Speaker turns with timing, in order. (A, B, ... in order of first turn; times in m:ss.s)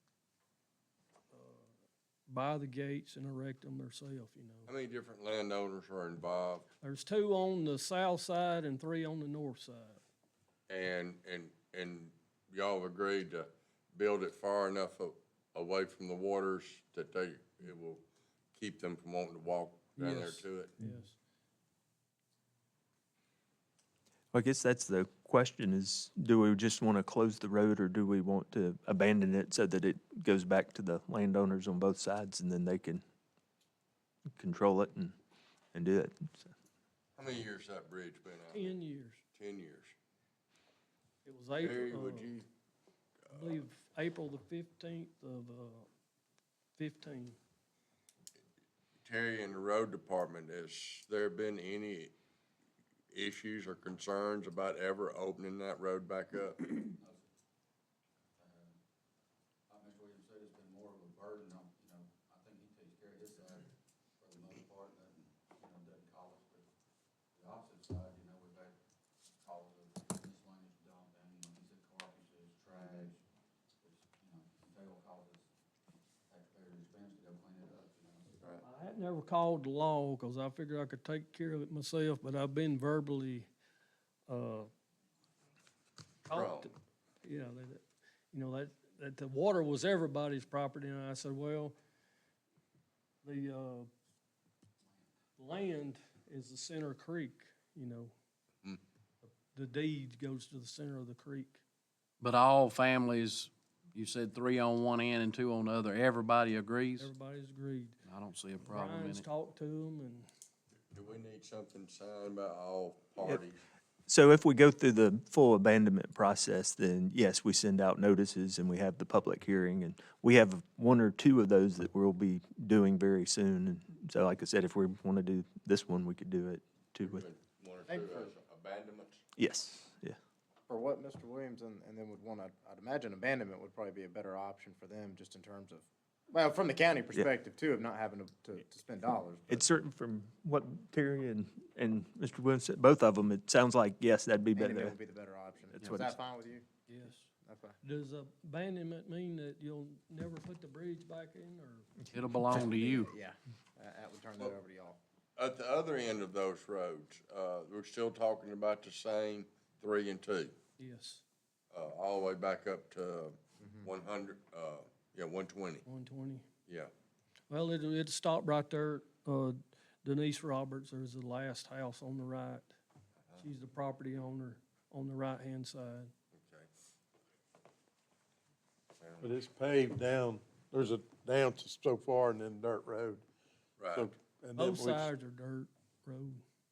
0:01.3-0:01.7 A
0:02.3-0:04.7 A
0:04.7-0:06.6 B
0:06.8-0:10.0 A
0:10.7-0:20.7 B
0:20.0-0:21.2 A
0:24.3-0:33.0 C
0:34.3-0:35.1 C
0:35.7-0:36.5 C
0:37.2-0:38.8 B
0:38.5-0:39.2 A
0:39.3-0:39.9 B
0:41.2-0:42.3 A
0:41.6-0:42.5 B
0:43.3-0:45.9 A
0:46.8-0:47.4 A
0:49.0-0:52.1 B
0:53.1-0:56.8 B
0:57.0-0:57.3 D
0:58.4-0:58.7 D
0:59.7-1:06.7 D
1:07.3-1:08.8 D
1:09.4-1:13.2 D
1:12.7-1:13.1 B
1:13.8-1:15.5 D
1:16.3-1:18.4 D
1:18.6-1:23.5 A
1:24.3-1:24.7 A
1:26.2-1:26.7 A
1:26.3-1:26.7 B
1:27.2-1:31.8 A
1:33.2-1:33.9 A
1:34.9-1:35.1 D
1:35.4-1:38.1 A
1:39.2-1:41.6 A
1:42.2-1:47.1 E
1:47.0-1:48.0 A
1:48.0-1:49.2 E
1:48.6-1:50.3 A
1:50.9-1:53.6 B
1:54.1-2:07.3 C
2:07.0-2:09.2 B
2:07.9-2:08.3 F
2:09.4-2:10.2 C
2:10.7-2:19.6 F
2:19.5-2:24.9 C
2:24.5-2:26.6 F
2:25.7-2:26.1 C
2:25.8-2:26.0 E
2:26.9-2:27.3 A
2:27.4-2:27.8 F
2:27.8-2:31.9 A
2:32.1-2:33.1 E
2:32.5-2:35.0 F
2:35.4-2:40.5 B
2:40.8-2:41.2 A
2:41.7-2:45.8 B
2:43.6-2:43.9 F
2:45.8-2:46.5 A
2:46.7-2:46.9 B
2:47.5-2:52.7 A
2:53.2-2:53.4 B
2:53.4-2:56.1 A
2:56.3-2:56.7 B
2:59.0-2:59.4 B
2:59.2-3:03.2 G
3:03.8-3:04.1 B
3:03.9-3:05.1 G
3:04.6-3:06.4 A